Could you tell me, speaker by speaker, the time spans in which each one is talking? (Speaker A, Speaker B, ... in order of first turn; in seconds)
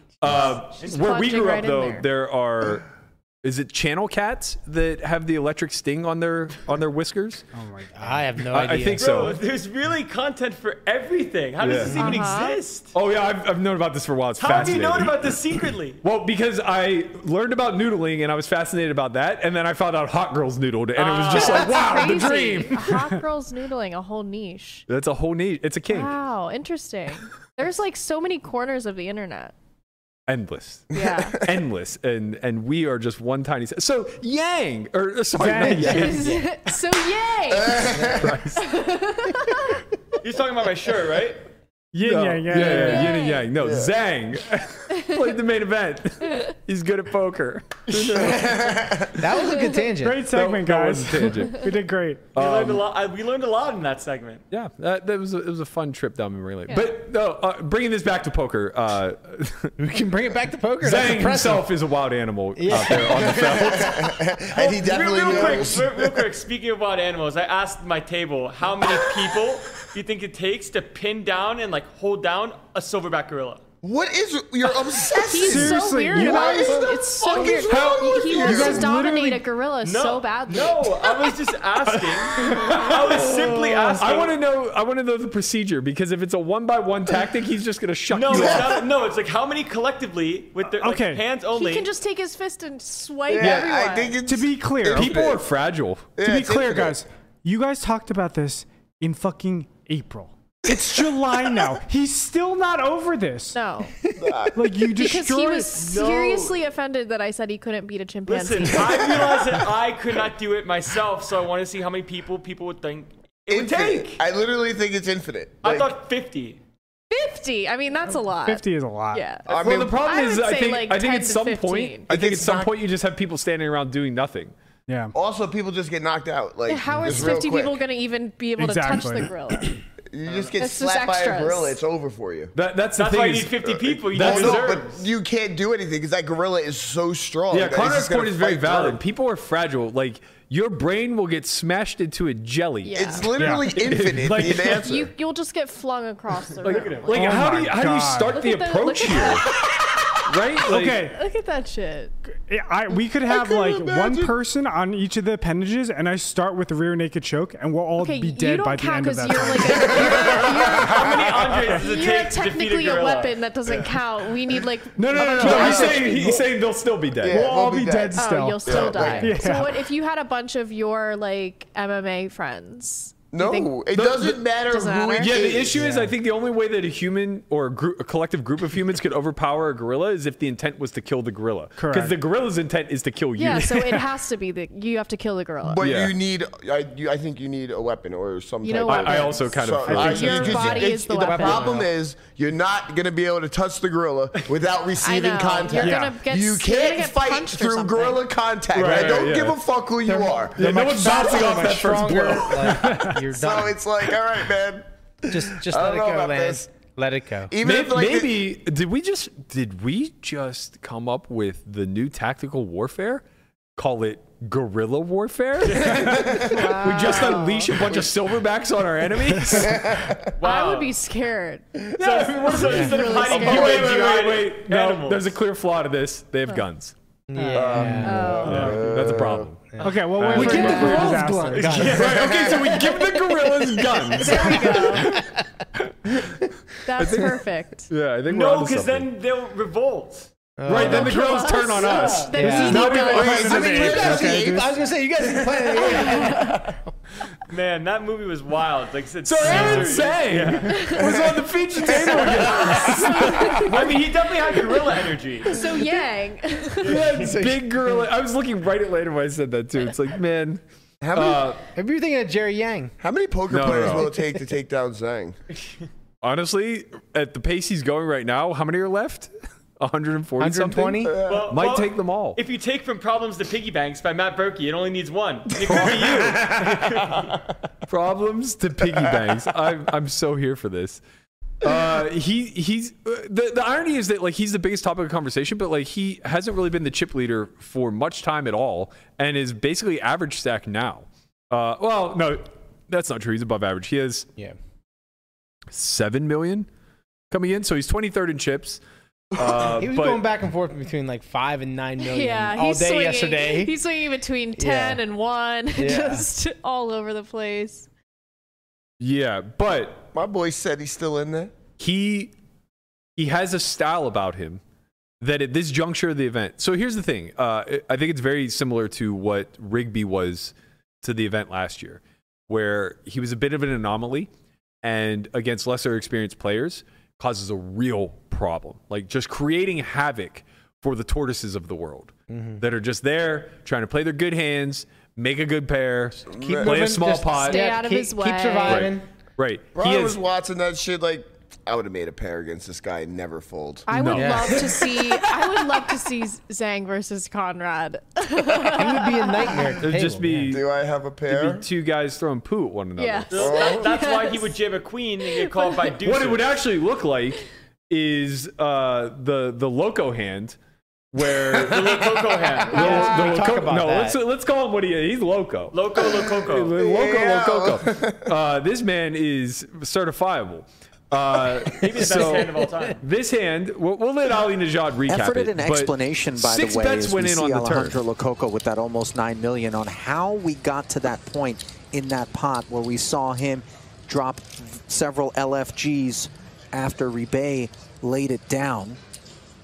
Speaker A: 0.2-2.8, 3.4-7.5, 8.5-9.4, 11.6-12.1, 12.9-15.4, 16.0-23.1, 24.9-26.1, 30.3-36.4, 38.1-38.6, 41.9-49.0, 50.3-51.6, 52.3-52.8, 54.5-59.7, 60.8-64.2, 65.3-65.6, 77.7-78.0, 81.9-88.8, 93.4-93.7, 94.9-96.1, 119.6-124.5, 132.5-134.7, 137.5-144.8, 146.6-149.5, 150.2-151.1, 165.0-167.5, 173.9-174.4, 175.2-184.1, 185.8-186.2, 188.8-190.6, 198.7-199.6, 200.6-203.2, 207.6-213.2, 213.8-219.9, 222.0-226.9, 228.5-231.1, 231.7-235.2, 236.1-236.3, 237.0-237.3, 237.9-239.1, 240.7-243.7, 249.2-254.0, 256.8-260.6, 261.1-261.6, 263.5-264.1, 266.2-272.4, 275.6-276.5, 277.9-281.0, 281.6-294.3, 295.7-296.7, 297.3-298.8, 299.4-300.2, 309.0-310.1, 311.8-312.3, 313.2-314.6, 315.2-324.3, 324.8-337.7, 338.6-340.2, 343.9-344.6, 349.8-350.6, 351.3-353.5, 356.0-360.6, 361.1-362.1, 362.7-365.8, 366.4-378.0
Speaker B: 0.8-2.0, 11.9-12.6, 21.3-24.9, 25.9-29.5, 30.9-31.4, 35.9-38.0, 38.6-39.8, 42.6-43.5, 45.0-45.3, 56.7-56.9, 75.1-80.9, 91.5-94.2, 103.5-104.0, 104.9-109.2, 117.1-122.1, 126.7-129.8, 130.6-131.8, 142.8-143.3, 144.8-147.2, 148.3-149.7, 151.0-152.1, 158.0-166.4, 168.1-173.9, 174.6-175.4, 183.3-185.8, 188.6-191.7, 195.0-198.2, 216.5-217.7, 220.4-221.8, 222.5-223.8, 228.0-228.7, 230.4-231.1, 234.2-235.2, 236.8-237.9, 240.7-243.5, 245.9-246.6, 250.7-251.1, 252.9-253.7, 255.5-257.1, 302.0-307.9, 337.3-338.9, 343.9-349.8, 353.0-354.6, 355.3-355.9
Speaker C: 7.5-8.2, 35.4-36.1, 41.9-43.1, 50.0-52.2, 75.3-76.8, 78.4-79.4, 90.8-91.2, 94.2-95.2, 96.2-103.6, 104.5-105.8, 118.4-119.2, 124.9-125.1, 126.9-127.4, 128.6-129.3, 143.3-143.6, 147.1-148.4, 150.7-151.2, 152.3-160.0, 167.3-169.8, 175.7-176.1, 181.8-182.2, 189.8-190.3, 195.8-196.1, 227.3-228.8, 229.8-232.0, 242.3-244.7
Speaker D: 8.0-9.3, 11.7-12.2, 35.4-36.5, 49.2-50.2, 59.8-61.7, 62.5-63.6, 190.5-191.9, 200.1-203.8, 205.3-207.5, 227.3-228.6, 229.7-232.8, 233.4-235.4, 240.6-242.8, 243.7-246.6, 261.7-262.9, 263.7-264.1, 270.4-271.2, 299.8-303.8, 304.6-305.0, 305.7-306.3, 332.3-332.6, 336.4-339.0, 344.1-344.5, 348.7-350.5, 362.7-364.2
Speaker E: 8.9-12.9, 14.4-16.0, 20.9-22.0, 40.2-41.4, 52.3-54.4, 64.5-73.6, 79.8-84.3, 88.1-91.9, 105.7-106.6, 108.2-114.2, 115.6-116.6, 130.2-130.6, 132.9-135.1, 146.6-147.1, 160.2-163.4, 215.6-216.4, 220.4-220.9, 221.9-225.3, 231.7-232.5, 238.3-240.3, 247.5-250.7, 253.6-255.6, 256.8-257.5, 271.2-277.4, 353.3-356.6, 361.6-363.3, 365.7-366.7, 371.8-373.0
Speaker F: 30.9-31.2, 37.5-38.4, 43.5-43.9, 47.9-49.3, 62.8-66.2, 73.8-78.9, 83.2-84.0, 88.3-88.8, 93.3-95.4, 96.2-97.0, 104.2-104.9, 108.7-109.7, 113.5-115.9, 119.5-120.0, 122.1-122.7, 125.1-127.8, 130.1-132.5, 133.7-139.0, 142.9-145.1, 153.2-154.3, 159.8-161.7, 165.1-166.5, 167.2-169.4, 173.3-175.9, 185.6-201.7, 202.7-206.7, 207.5-208.5, 215.8-216.7, 219.5-220.3, 223.4-224.1, 227.5-229.5, 231.9-232.8, 242.7-246.6, 251.1-253.6, 261.0-261.5, 263.0-265.4, 271.1-271.6, 275.6-277.3, 310.1-311.5, 336.3-337.0, 339.7-343.9, 344.5-344.9, 350.5-351.6, 353.4-353.9, 366.7-368.3
Speaker G: 375.1-389.0